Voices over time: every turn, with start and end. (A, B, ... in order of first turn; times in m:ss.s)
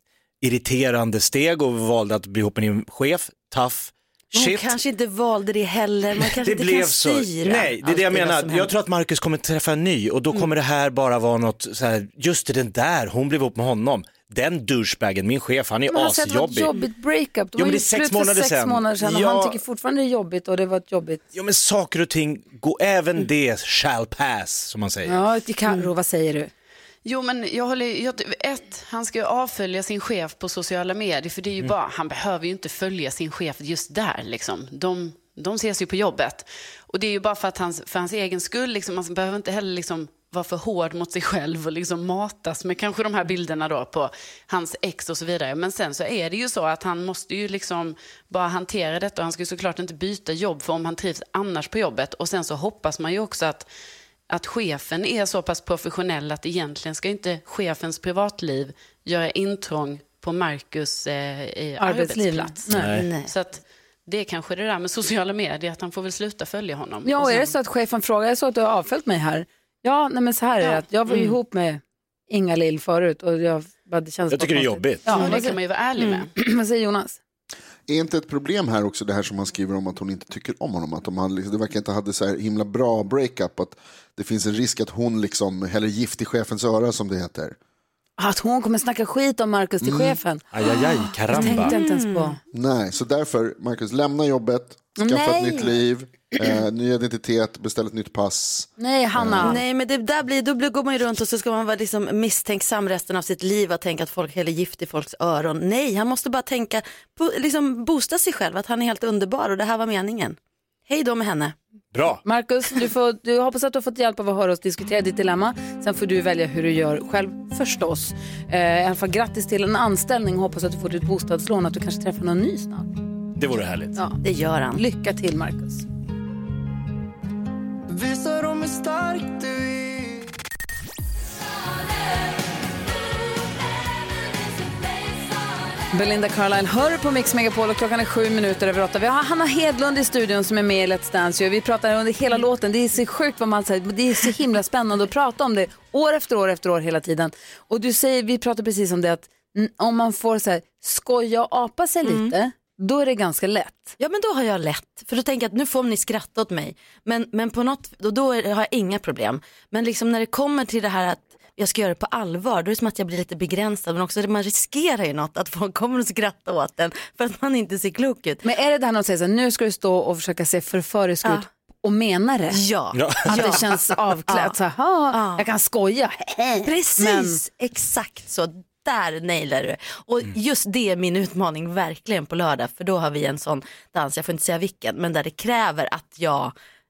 0:00.4-0:04.8 A
0:04.3-0:08.7 B
0:06.2-0:16.7 A
0:15.9-0:21.2 C
0:17.6-0:19.6 A
0:21.3-0:25.2 A
0:25.0-0:26.5 C
0:27.0-0:53.7 D
0:54.3-1:07.5 D
1:01.8-1:02.9 C
1:02.7-1:03.1 A
1:02.8-1:03.3 B
1:07.0-1:15.6 C
1:11.1-1:11.3 B
1:14.3-1:15.2 A
1:15.1-1:16.3 D
1:16.3-1:17.2 C
1:17.9-1:27.6 E
1:28.2-1:32.4 C
1:29.8-1:30.2 E
1:30.5-1:31.8 A
1:31.3-1:32.4 B
1:32.5-1:39.6 E
1:35.0-1:35.7 C
1:38.8-1:39.6 C
1:39.4-1:51.6 B
1:51.9-1:52.2 A
1:52.2-2:02.9 C
2:03.4-2:04.0 A
2:04.2-2:04.8 B
2:04.7-2:05.8 C
2:07.9-2:10.3 F
2:15.9-2:34.0 C
2:32.0-2:32.4 B
2:34.0-2:48.4 B
2:48.4-2:52.6 C
2:52.5-2:54.6 B
2:52.9-2:53.5 A
2:53.2-2:57.4 C
2:55.1-2:55.4 B
2:56.6-3:06.5 B